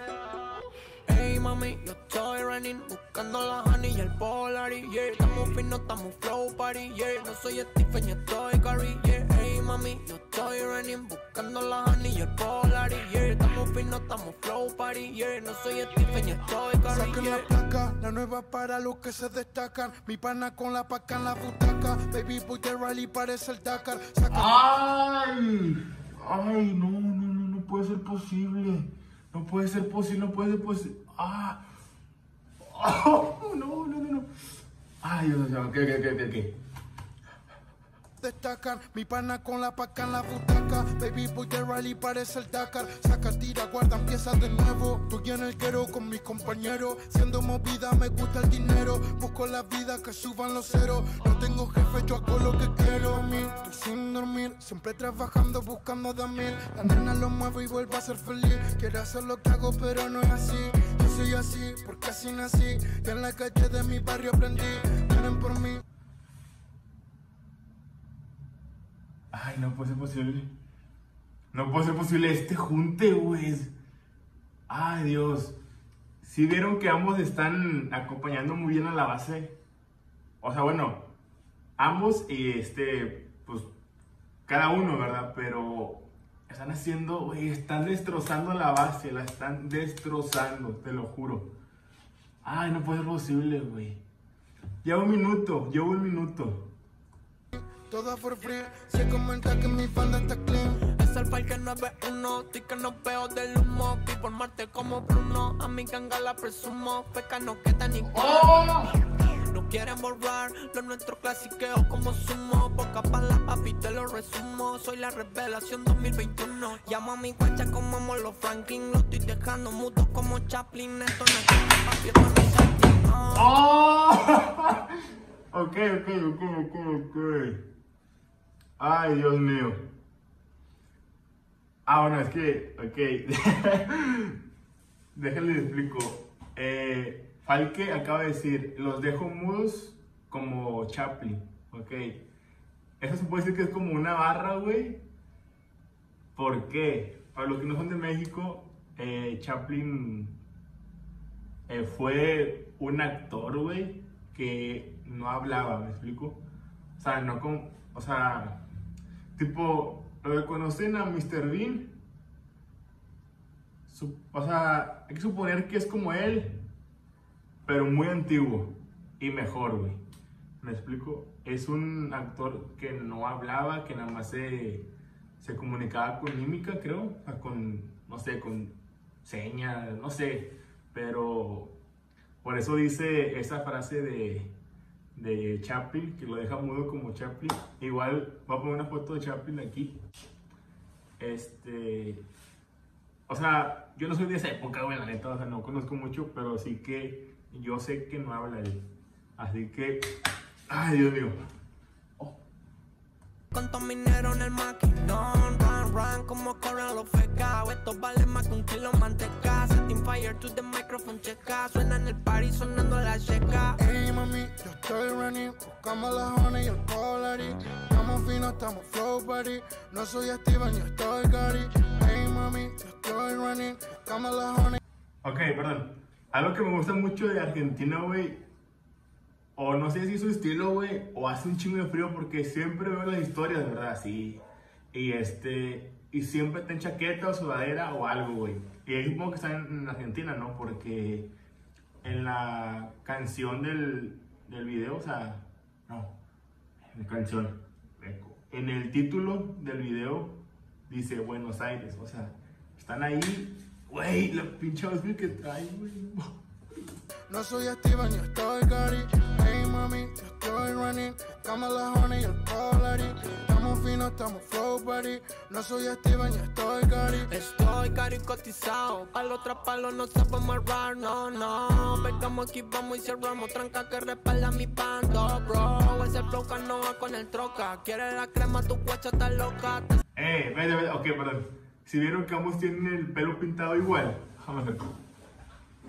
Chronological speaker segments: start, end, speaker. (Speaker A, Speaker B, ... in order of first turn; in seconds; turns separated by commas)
Speaker A: 1.0-17.5, Speaker B: 16.9-24.5, Speaker C: 24.3-31.6, Speaker C: 32.6-34.3, Speaker C: 35.0-36.5, Speaker B: 38.2-65.8, Speaker C: 69.3-70.5, Speaker C: 71.5-73.7, Speaker C: 74.7-75.5, Speaker C: 76.2-79.6, Speaker C: 80.4-81.0, Speaker C: 81.8-83.7, Speaker C: 84.5-91.5, Speaker C: 92.4-94.0, Speaker C: 94.8-96.7, Speaker B: 97.5-100.8, Speaker A: 100.8-123.5, Speaker C: 108.1-108.9, Speaker C: 123.3-124.9, Speaker C: 125.5-127.6, Speaker C: 128.8-129.8, Speaker C: 131.8-134.4, Speaker C: 135.1-142.2, Speaker C: 143.0-145.0, Speaker C: 146.3-150.3, Speaker C: 151.7-156.4, Speaker C: 157.0-158.6, Speaker C: 159.3-161.9, Speaker C: 163.9-166.6, Speaker C: 167.7-170.0, Speaker C: 170.6-174.9, Speaker C: 175.4-181.7, Speaker C: 182.4-184.5, Speaker C: 185.1-190.0, Speaker C: 191.2-192.2, Speaker C: 193.3-198.8, Speaker C: 199.4-200.0, Speaker C: 200.7-201.4, Speaker A: 203.5-213.8, Speaker B: 213.8-224.8, Speaker C: 225.2-228.4, Speaker C: 229.6-234.4, Speaker C: 234.9-241.3, Speaker C: 242.0-246.1, Speaker C: 246.9-256.4, Speaker B: 257.3-267.3, Speaker A: 267.2-280.0, Speaker C: 280.1-284.9